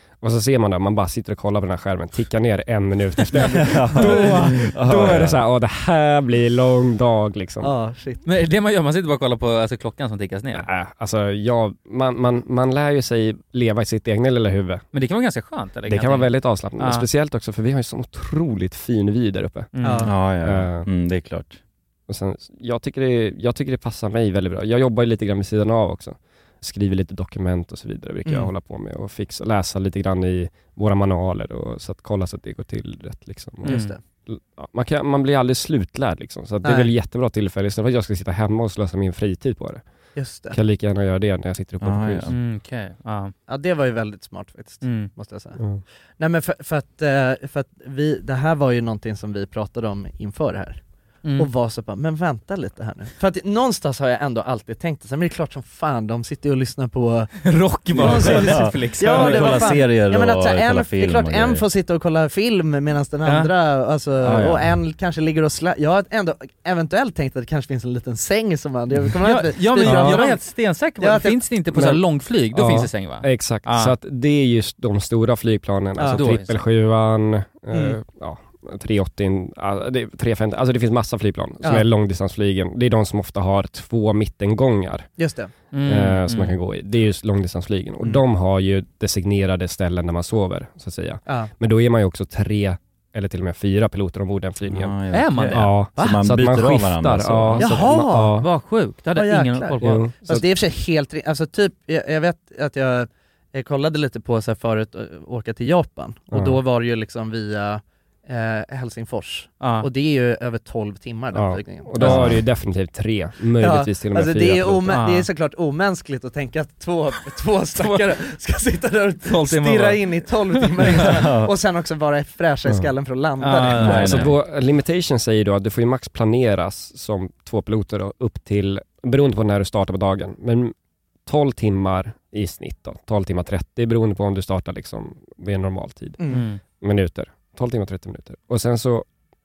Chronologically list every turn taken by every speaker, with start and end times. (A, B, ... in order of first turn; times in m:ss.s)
0:00.2-0:07.7 A
0:03.4-0:05.4 B
0:04.0-0:04.6 C
0:07.6-0:08.2 D
0:08.2-0:10.7 C
0:10.5-0:14.8 A
0:14.9-0:17.1 C
0:15.9-0:19.7 A
0:19.7-0:20.1 C
0:19.8-0:20.1 D
0:20.0-0:21.6 B
0:20.4-0:20.9 A
0:22.1-0:39.8 A
0:33.6-0:34.0 D
0:33.7-0:34.0 C
0:36.6-0:36.9 D
0:40.2-0:40.6 D
0:40.5-0:42.4 A
0:41.8-0:42.4 B
0:42.3-0:43.3 C
0:43.5-0:45.6 D
0:44.8-0:45.1 C
0:46.2-0:50.8 D
0:51.2-0:51.5 C
0:51.4-0:57.3 D
0:57.4-0:59.8 C
0:57.9-1:10.4 D
0:58.0-1:01.6 B
1:04.2-1:04.8 B
1:09.2-1:14.0 C
1:09.9-1:10.1 A
1:11.0-1:11.4 D
1:11.7-1:25.1 A
1:16.0-1:16.2 D
1:16.1-1:16.6 C
1:17.7-1:18.0 D
1:25.2-1:25.5 D
1:25.7-1:26.6 C
1:25.8-1:34.9 A
1:34.7-1:37.7 B
1:35.1-1:35.7 C
1:35.5-1:38.5 A
1:37.6-1:38.4 D
1:38.4-1:40.1 C
1:39.1-1:52.3 D
1:39.8-1:40.5 A
1:46.3-1:46.6 A
1:49.6-1:49.9 C
1:51.3-1:55.0 A
1:52.0-1:52.3 C
1:53.6-2:04.2 D
1:54.9-1:55.3 C
1:57.8-1:58.1 C
1:59.2-2:01.1 C
2:01.0-2:01.5 B
2:03.4-2:04.3 C
2:03.8-2:04.3 B
2:03.8-2:10.7 A
2:11.3-2:16.2 A
2:16.2-2:16.5 D
2:16.3-2:16.6 C
2:16.8-2:19.1 A